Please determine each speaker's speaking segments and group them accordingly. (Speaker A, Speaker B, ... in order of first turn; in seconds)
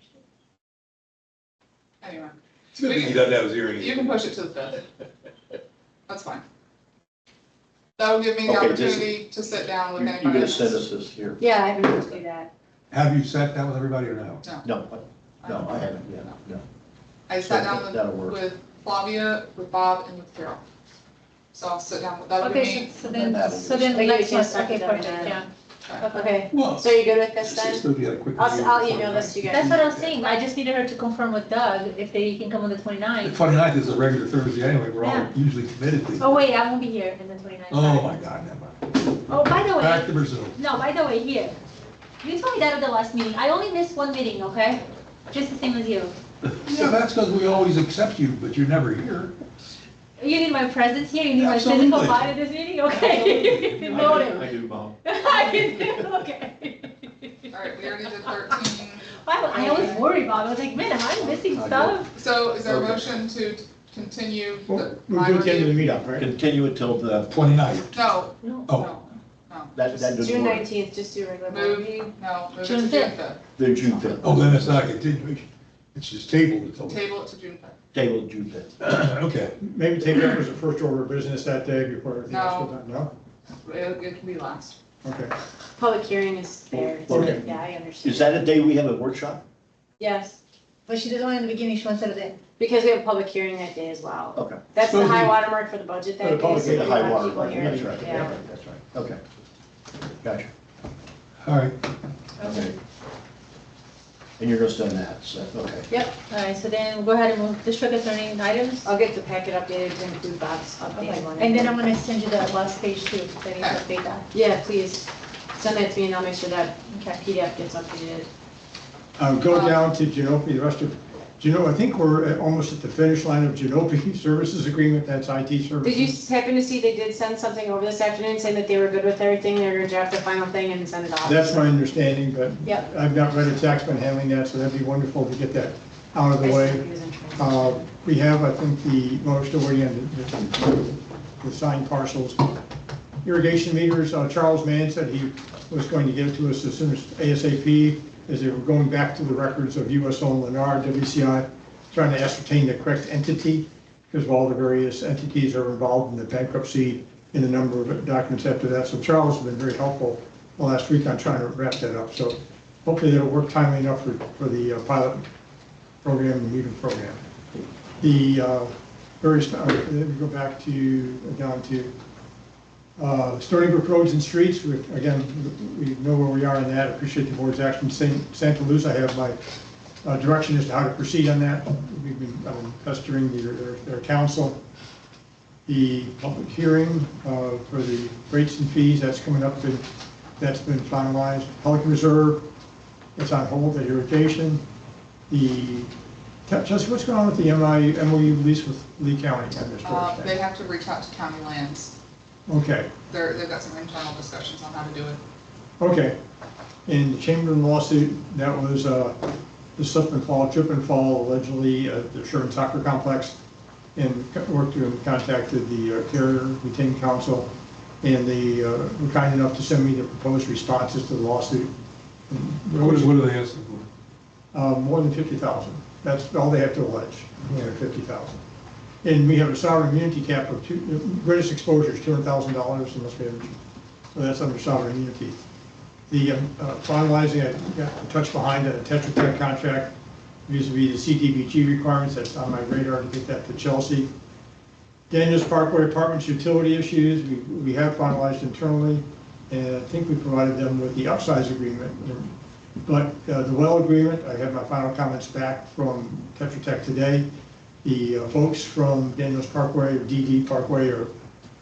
Speaker A: 2.0-4.8, 6.1-6.4, 8.0-10.8, 15.4-16.4, 17.3-20.6, 21.5-22.9, 25.9-26.1, 57.5-60.0, 62.1-65.9, 67.9-70.1, 71.5-74.3, 76.9-77.7, 82.3-82.7, 83.6-84.8, 119.5-119.8, 199.8-201.9, 203.1-205.2
Speaker B: 2.8-4.2, 12.9-14.4, 26.5-30.1, 33.2-36.4, 37.7-38.8, 39.8-40.6, 46.6-49.3, 51.3-52.3, 53.0-54.1, 67.3-68.0, 74.2-77.1, 78.8-79.5, 94.8-95.3, 101.4-101.7, 222.8-223.9
Speaker C: 8.4-9.2, 9.9-11.4, 14.6-16.6, 17.4-18.4, 23.1-23.9, 53.9-55.0, 61.1-62.0, 62.6-63.1, 66.2-67.4, 69.7-70.7, 73.6-74.9, 77.9-78.7, 86.7-89.4, 94.3-94.6, 96.5-99.2, 100.2-100.5, 102.4-102.7, 104.4-105.9
Speaker D: 11.4-12.5, 23.9-25.4, 26.1-27.8, 28.4-29.8, 55.2-55.6, 70.1-71.9, 85.8-88.3, 90.0-90.4, 92.6-98.4, 108.8-111.8, 114.3-118.3, 125.8-131.8, 136.4-137.9
Speaker E: 22.4-25.5, 26.0-26.4, 29.4-33.4, 35.0-35.3, 36.2-38.1, 39.3-41.6, 42.2-46.1, 50.2-54.5, 55.0-58.5, 59.2-62.1, 68.4-68.7, 72.6-73.1, 90.9-92.4, 102.4-102.7, 106.3-108.9, 110.9-114.2, 116.9-117.2
Speaker F: 64.7-66.3, 79.6-83.1, 85.0-85.3, 87.1-87.4, 96.2-98.0, 119.2-126.2, 131.2-136.8, 137.4-142.4, 143.2-165.3, 166.0-171.9, 173.0-179.4, 180.0-184.6, 185.7-189.8, 190.4-192.4, 193.2-194.6, 195.3-195.9, 196.5-200.3, 202.5-202.9, 205.8-206.2, 206.9-209.2, 209.8-213.3, 213.9-217.5, 218.0-221.7, 222.3-223.2, 224.5-228.4, 229.0-233.6, 234.1-235.4, 236.1-239.9, 240.5-244.1, 245.1-252.3, 252.8-257.3, 257.8-261.1